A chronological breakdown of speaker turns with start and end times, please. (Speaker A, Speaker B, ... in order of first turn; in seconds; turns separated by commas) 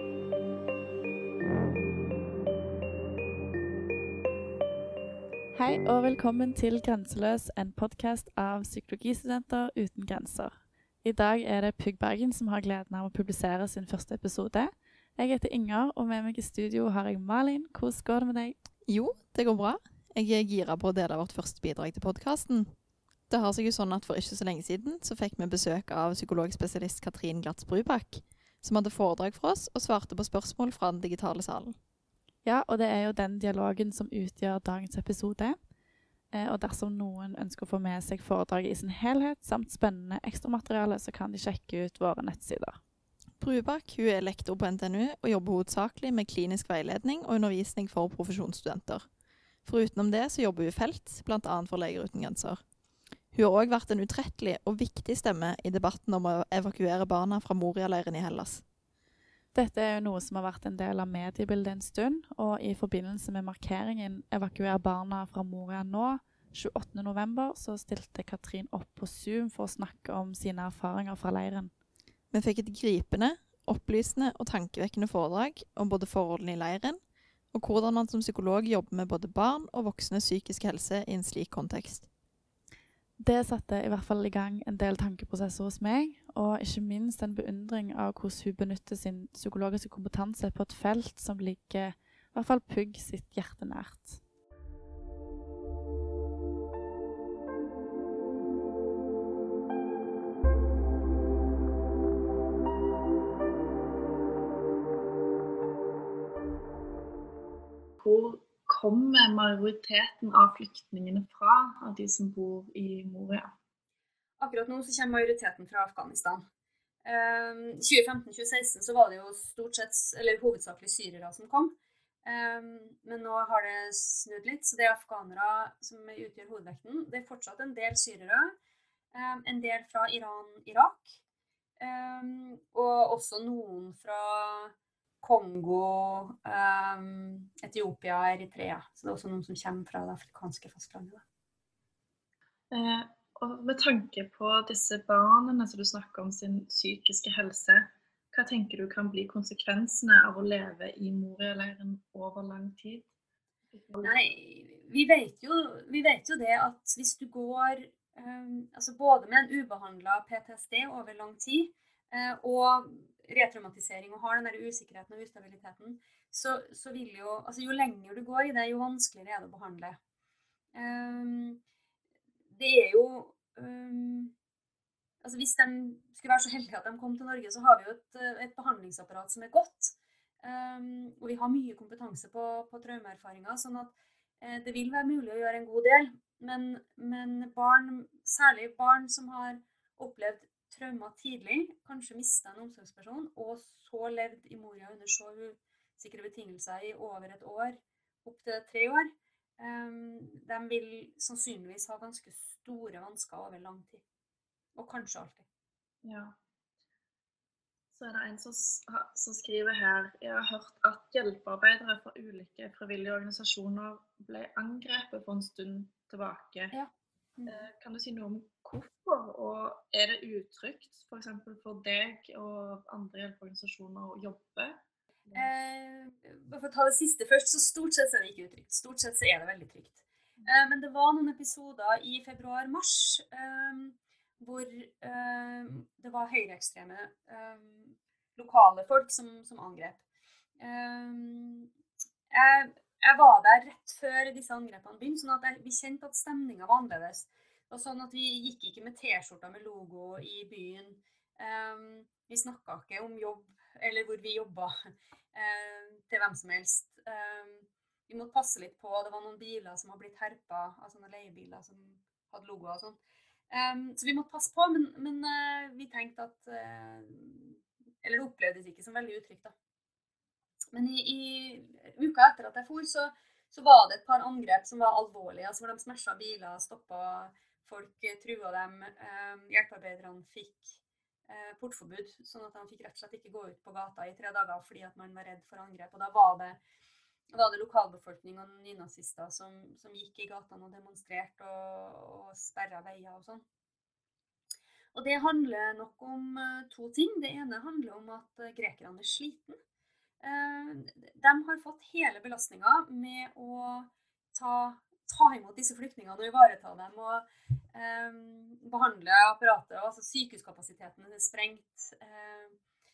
Speaker A: 5.5-18.6, Speaker B: 18.9-31.8, Speaker A: 32.4-35.7, Speaker A: 36.3-42.8, Speaker B: 43.4-49.1, Speaker B: 49.6-52.7, Speaker B: 53.2-58.7, Speaker A: 59.5-71.7, Speaker B: 72.3-82.1, Speaker A: 83.2-94.2, Speaker C: 108.0-113.5, Speaker D: 114.4-116.4, Speaker D: 117.0-121.7, Speaker D: 122.2-128.5, Speaker D: 129.1-131.2, Speaker D: 131.8-141.2, Speaker C: 142.7-153.1, Speaker C: 153.7-154.2, Speaker D: 154.0-170.0, Speaker D: 170.8-171.6, Speaker D: 172.5-174.3, Speaker D: 175.2-204.0, Speaker D: 204.8-205.5, Speaker C: 206.0-206.4, Speaker C: 207.9-216.7, Speaker D: 216.7-217.7, Speaker C: 217.5-225.5, Speaker D: 225.3-240.0, Speaker D: 240.6-241.7, Speaker D: 242.3-254.8, Speaker D: 255.3-263.0, Speaker D: 263.5-269.5, Speaker D: 270.7-280.8, Speaker D: 281.3-286.6, Speaker D: 287.3-293.4, Speaker D: 294.9-299.6, Speaker D: 300.2-312.6